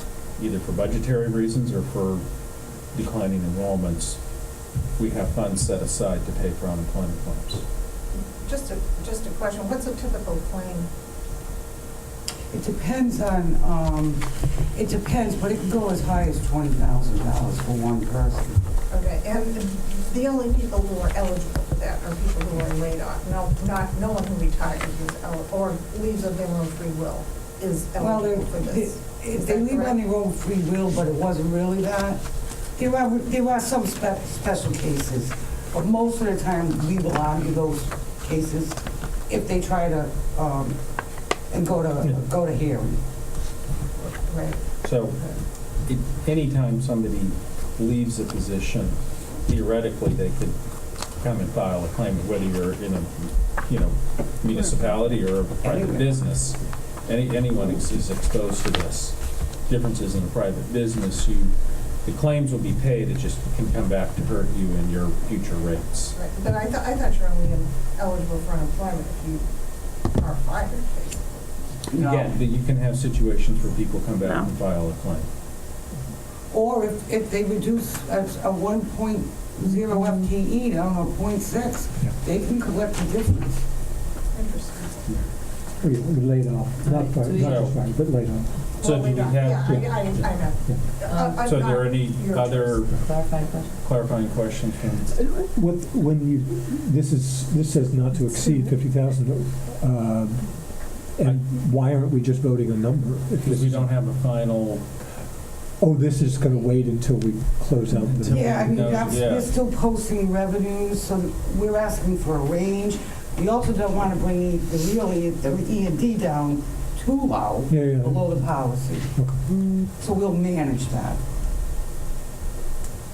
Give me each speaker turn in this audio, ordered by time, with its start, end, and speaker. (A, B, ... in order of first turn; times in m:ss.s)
0:00.4-0:02.2 A
0:02.9-0:04.2 A
0:05.0-0:07.6 A
0:08.2-0:10.9 B
0:12.5-0:18.6 C
0:18.9-0:30.0 B
0:28.0-0:32.2 C
0:32.8-0:40.8 C
0:41.5-0:43.0 C
0:44.3-0:44.6 B
0:44.8-0:50.6 A
0:51.1-1:01.5 A
0:55.6-0:56.2 C
1:02.0-1:06.2 A
1:06.1-1:09.5 B
1:10.0-1:11.4 B
1:11.9-1:12.4 C
1:12.0-1:15.3 A
1:16.5-1:23.6 C
1:24.3-1:25.2 B
1:25.8-1:28.5 D
1:26.8-1:27.7 E
1:27.3-1:27.8 A
1:28.8-1:32.9 B
1:28.8-1:30.3 A
1:29.5-1:30.8 D
1:31.0-1:33.2 A
1:31.1-1:31.4 E
1:32.9-1:33.7 E
1:33.8-1:35.2 A
1:35.1-1:43.9 D
1:43.4-1:44.9 A
1:45.8-1:49.2 D
1:48.0-1:49.5 A
1:48.3-1:59.2 C
1:57.7-1:58.4 D
1:59.2-1:59.4 D
2:00.0-2:01.2 C